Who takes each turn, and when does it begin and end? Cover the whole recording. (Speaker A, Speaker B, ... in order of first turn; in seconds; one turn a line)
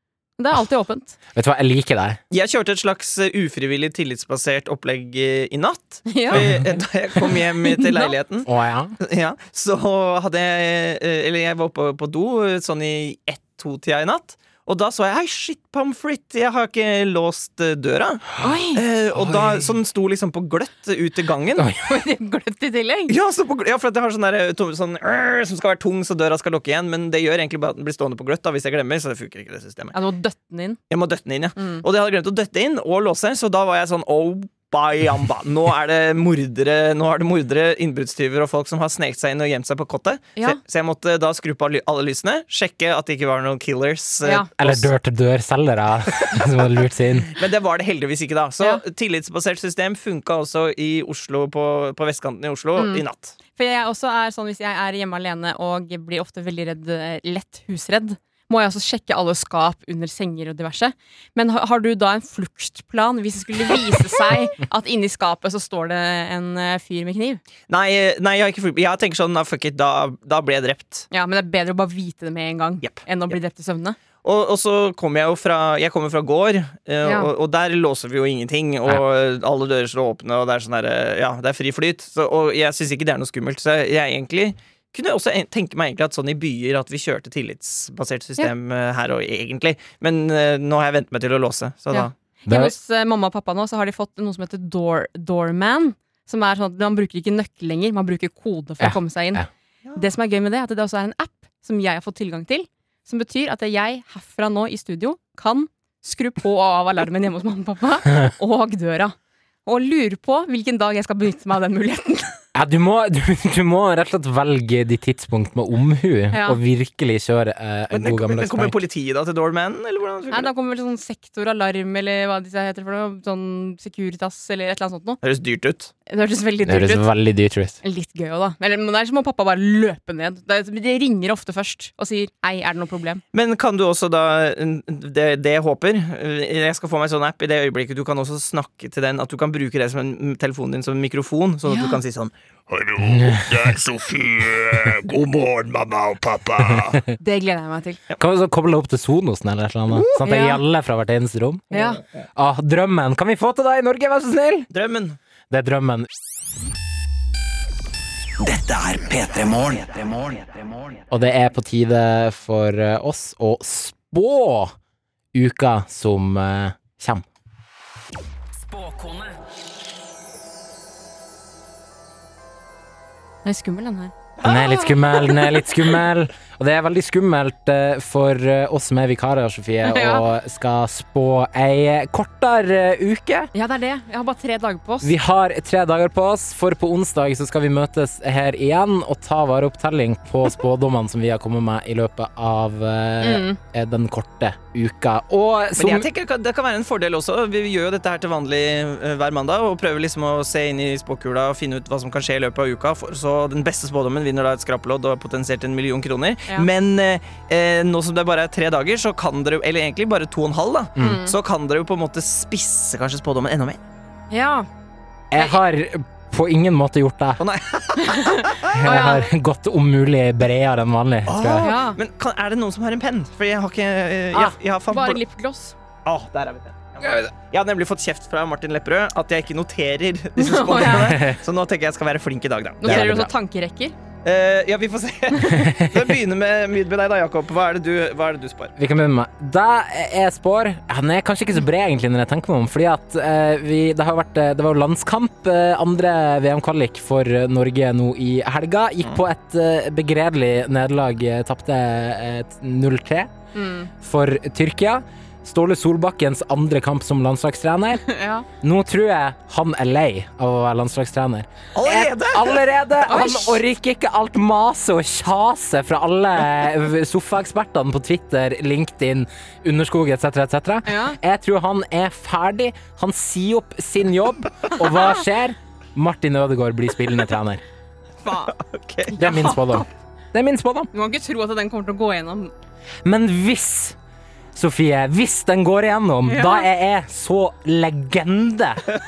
Speaker A: 0.4-1.1
Speaker B: 1.3-2.2
Speaker C: 2.3-8.5
Speaker A: 6.1-6.4
Speaker B: 6.3-6.7
Speaker A: 7.7-8.1
Speaker B: 8.4-8.9
Speaker C: 9.0-21.6
Speaker A: 18.4-18.8
Speaker B: 19.1-19.7
Speaker B: 21.6-21.9
Speaker A: 21.8-23.1
Speaker C: 23.1-29.9
Speaker A: 29.9-30.8
Speaker C: 30.9-44.9
Speaker A: 31.6-31.8
Speaker B: 44.6-47.3
Speaker C: 47.3-53.4
Speaker A: 52.8-53.0
Speaker A: 53.5-67.4
Speaker C: 67.7-71.1
Speaker A: 71.1-74.0
Speaker C: 74.2-92.1
Speaker A: 77.0-77.3
Speaker A: 91.9-99.4
Speaker B: 92.5-92.7
Speaker B: 98.8-99.5
Speaker A: 100.0-109.1
Speaker A: 109.7-112.4
Speaker B: 112.5-118.7
Speaker A: 116.3-116.6
Speaker C: 117.9-120.5
Speaker A: 120.3-125.2
Speaker C: 125.2-125.9
Speaker A: 126.1-127.1
Speaker B: 126.7-127.8
Speaker A: 127.8-133.2
Speaker C: 133.3-147.0
Speaker A: 141.7-142.0
Speaker B: 143.0-143.8
Speaker B: 146.7-147.0
Speaker A: 147.2-148.0
Speaker B: 148.2-151.6
Speaker A: 150.2-150.6
Speaker A: 151.7-152.0
Speaker B: 152.3-154.7
Speaker C: 154.7-155.2
Speaker B: 155.5-156.1
Speaker D: 158.4-161.1
Speaker B: 161.1-164.7
Speaker B: 165.3-167.2
Speaker B: 168.7-169.3
Speaker A: 173.4-175.4
Speaker B: 174.4-183.5
Speaker A: 179.8-180.2
Speaker A: 183.5-185.1
Speaker B: 185.0-196.1
Speaker A: 193.2-193.6
Speaker C: 195.8-213.8
Speaker A: 211.0-211.3
Speaker A: 214.3-214.7
Speaker B: 215.3-217.4
Speaker C: 217.4-218.7
Speaker A: 218.0-219.3
Speaker B: 218.6-221.7
Speaker C: 221.3-225.2
Speaker A: 221.6-222.0
Speaker A: 224.3-225.7
Speaker C: 226.0-233.0
Speaker A: 230.4-231.2
Speaker B: 230.8-231.4
Speaker A: 232.8-233.9
Speaker B: 232.8-233.3
Speaker C: 234.2-238.7
Speaker A: 235.3-235.6
Speaker B: 235.5-236.1
Speaker B: 238.8-253.3
Speaker A: 253.5-253.9
Speaker B: 254.0-258.0
Speaker A: 258.0-258.4
Speaker B: 258.6-277.6
Speaker C: 261.7-262.6
Speaker A: 263.1-263.6
Speaker A: 270.9-271.2
Speaker A: 274.8-275.2
Speaker A: 278.2-278.5
Speaker C: 278.5-279.2
Speaker A: 279.1-279.9
Speaker B: 279.2-280.9
Speaker A: 280.9-282.5
Speaker B: 283.0-283.9
Speaker B: 284.5-288.8
Speaker A: 286.2-286.7